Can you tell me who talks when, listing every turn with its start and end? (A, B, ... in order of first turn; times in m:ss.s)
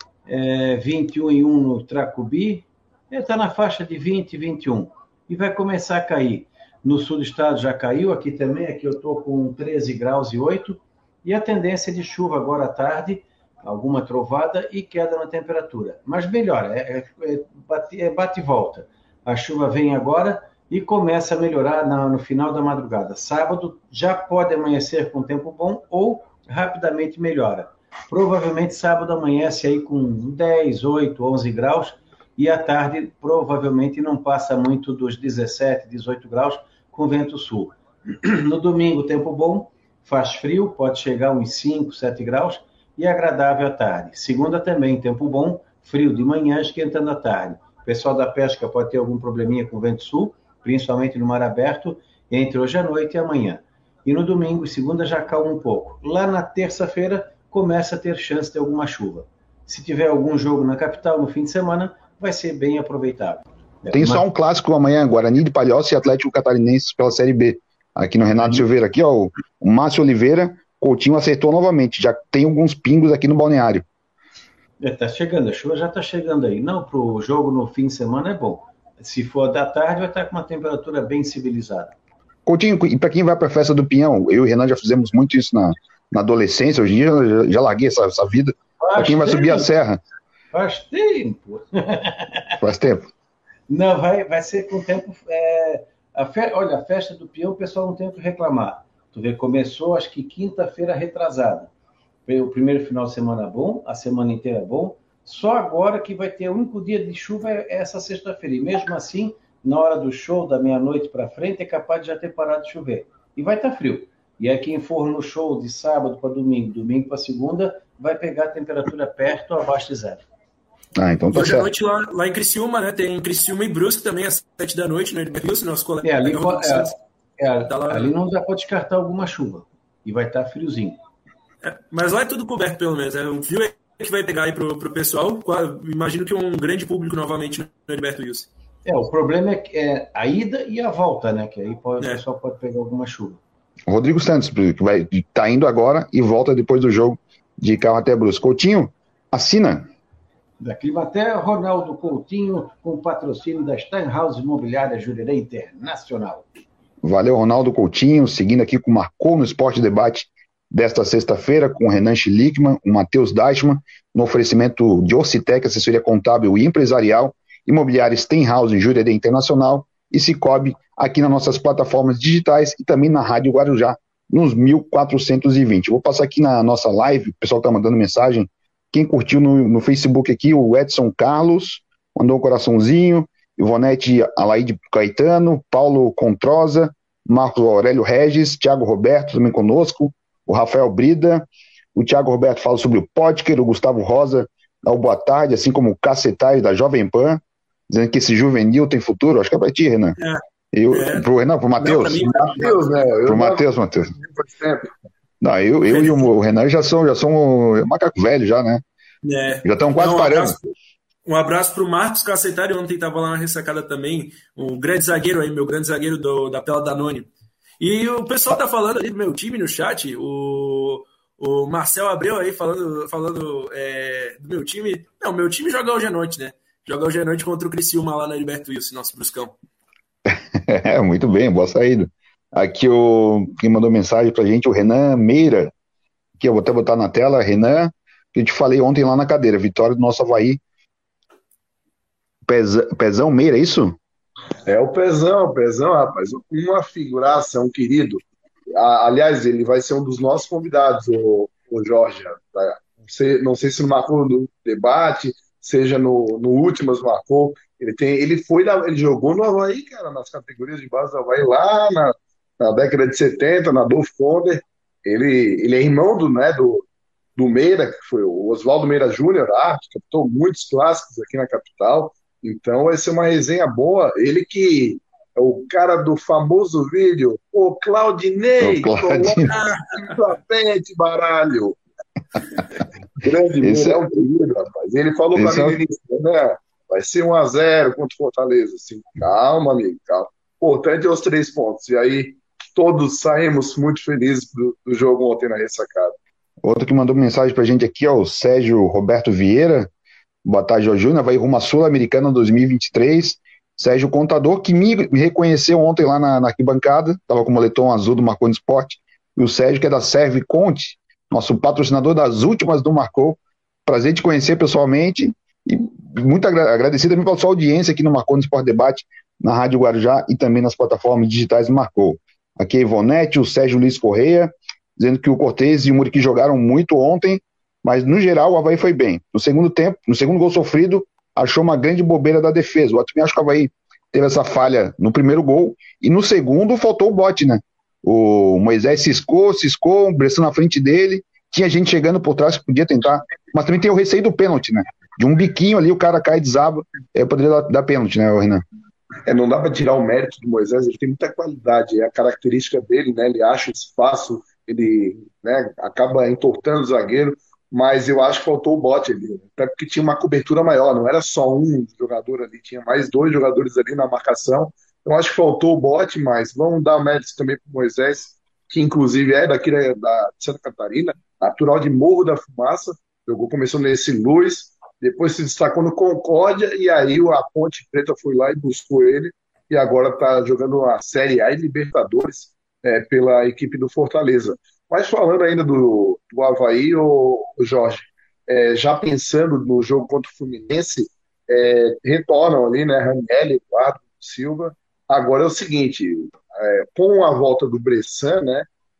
0:00.3-1:04.2 A
1:03.9-1:13.8 B
1:14.8-1:22.0 A
1:22.5-1:30.0 B
1:28.8-1:29.7 A
1:30.5-1:32.5 A
1:32.6-1:33.1 B
1:33.7-1:41.7 A
1:42.3-2:00.2 A
2:01.0-2:01.7 B
2:01.3-2:06.9 C
2:06.0-2:11.0 A
2:07.7-2:08.2 C
2:11.6-2:18.5 C
2:18.8-2:23.4 A
2:23.9-2:29.9 B
2:30.6-2:36.5 A
2:37.0-3:20.2 B
3:20.2-3:21.3 C
3:20.7-3:22.6 B
3:21.8-3:22.8 C
3:22.5-3:24.9 D
3:23.3-3:24.1 B
3:25.4-3:28.8 B
3:25.9-3:26.2 C
3:29.2-3:30.7 C
3:29.6-3:30.6 B
3:31.3-3:37.3 C
3:37.8-3:49.6 C
3:50.3-3:55.7 B
3:56.4-4:00.6 B
4:02.5-4:04.0 B
4:04.7-4:26.8 D
4:27.4-4:41.8 D
4:38.6-4:39.5 B
4:39.5-4:40.1 C
4:43.2-4:56.2 D
4:43.6-4:44.0 B
4:45.4-4:45.8 B
4:56.6-4:59.9 B
5:00.4-5:48.6 B
5:49.3-6:38.7 D